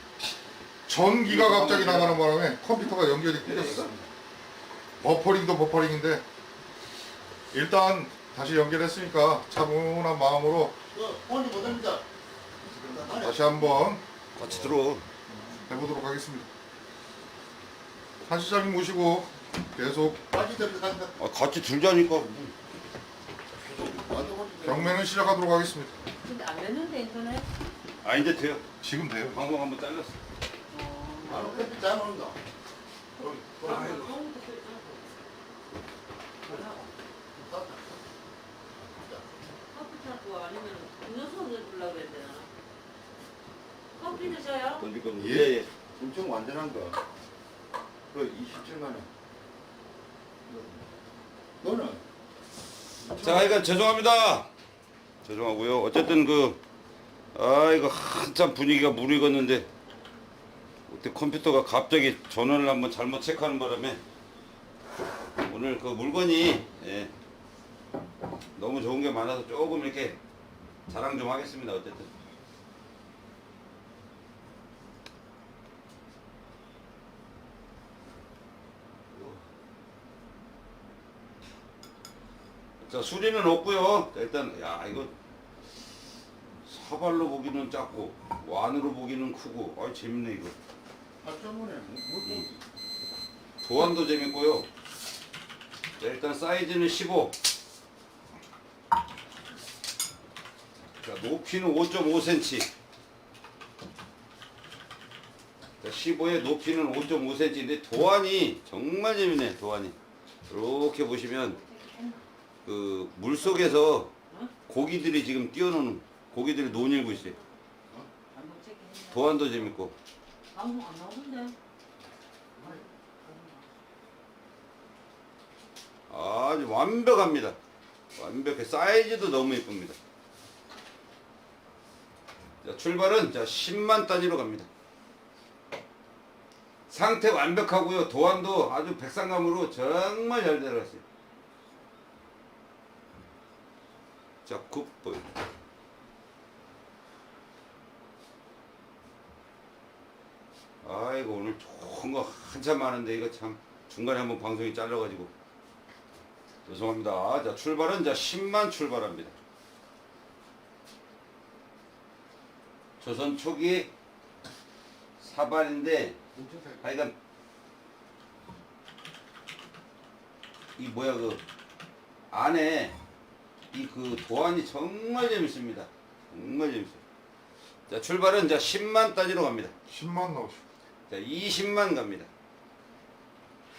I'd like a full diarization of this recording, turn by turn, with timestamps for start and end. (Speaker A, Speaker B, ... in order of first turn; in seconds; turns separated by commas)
Speaker A: 0.9-3.9, Speaker B: 1.3-2.0, Speaker C: 1.6-2.1, Speaker C: 3.5-4.0, Speaker B: 3.5-3.8, Speaker A: 5.0-6.2, Speaker A: 7.5-10.8, Speaker B: 10.9-12.1, Speaker B: 12.6-13.9, Speaker A: 13.2-14.7, Speaker C: 14.3-15.1, Speaker A: 15.7-16.5, Speaker A: 18.2-20.2, Speaker B: 20.3-21.2, Speaker C: 21.2-22.5, Speaker B: 23.8-25.0, Speaker A: 24.6-26.0, Speaker D: 26.2-27.5, Speaker C: 28.0-28.6, Speaker A: 28.8-29.4, Speaker C: 29.3-30.2, Speaker D: 30.7-31.8, Speaker B: 31.2-32.4, Speaker D: 33.2-35.1, Speaker B: 33.2-34.0, Speaker C: 33.6-34.1, Speaker D: 36.4-36.9, Speaker B: 37.4-37.8, Speaker B: 38.7-39.3, Speaker D: 39.7-42.5, Speaker D: 44.0-44.9, Speaker C: 44.8-45.6, Speaker B: 45.1-47.0, Speaker A: 45.2-45.6, Speaker B: 48.1-49.1, Speaker B: 50.5-50.9, Speaker B: 51.6-52.0, Speaker B: 53.0-53.6, Speaker C: 53.2-54.5, Speaker C: 55.2-56.6, Speaker C: 57.3-59.7, Speaker C: 60.9-64.0, Speaker C: 65.4-67.1, Speaker C: 68.6-70.2, Speaker C: 70.9-72.1, Speaker C: 82.8-85.1, Speaker C: 86.7-90.5, Speaker B: 91.2-92.6, Speaker C: 93.6-94.7, Speaker C: 96.0-97.3, Speaker C: 101.0-102.7, Speaker C: 105.8-110.0, Speaker C: 110.5-111.6, Speaker D: 111.4-112.2, Speaker C: 112.7-114.1, Speaker C: 114.7-117.4, Speaker D: 116.7-117.4, Speaker D: 118.3-119.7, Speaker C: 119.1-120.0, Speaker D: 120.5-121.6, Speaker D: 122.6-123.6, Speaker C: 126.1-127.6, Speaker C: 128.2-130.0, Speaker C: 132.6-134.7, Speaker C: 136.9-141.0, Speaker C: 144.5-145.3, Speaker C: 150.8-155.3, Speaker C: 156.7-159.3, Speaker C: 163.0-163.9, Speaker C: 165.2-166.2, Speaker B: 166.3-166.9, Speaker C: 166.8-167.2, Speaker C: 170.8-171.4, Speaker C: 172.3-172.9, Speaker C: 173.7-177.0, Speaker C: 177.9-179.7, Speaker A: 179.9-180.6, Speaker C: 181.1-182.3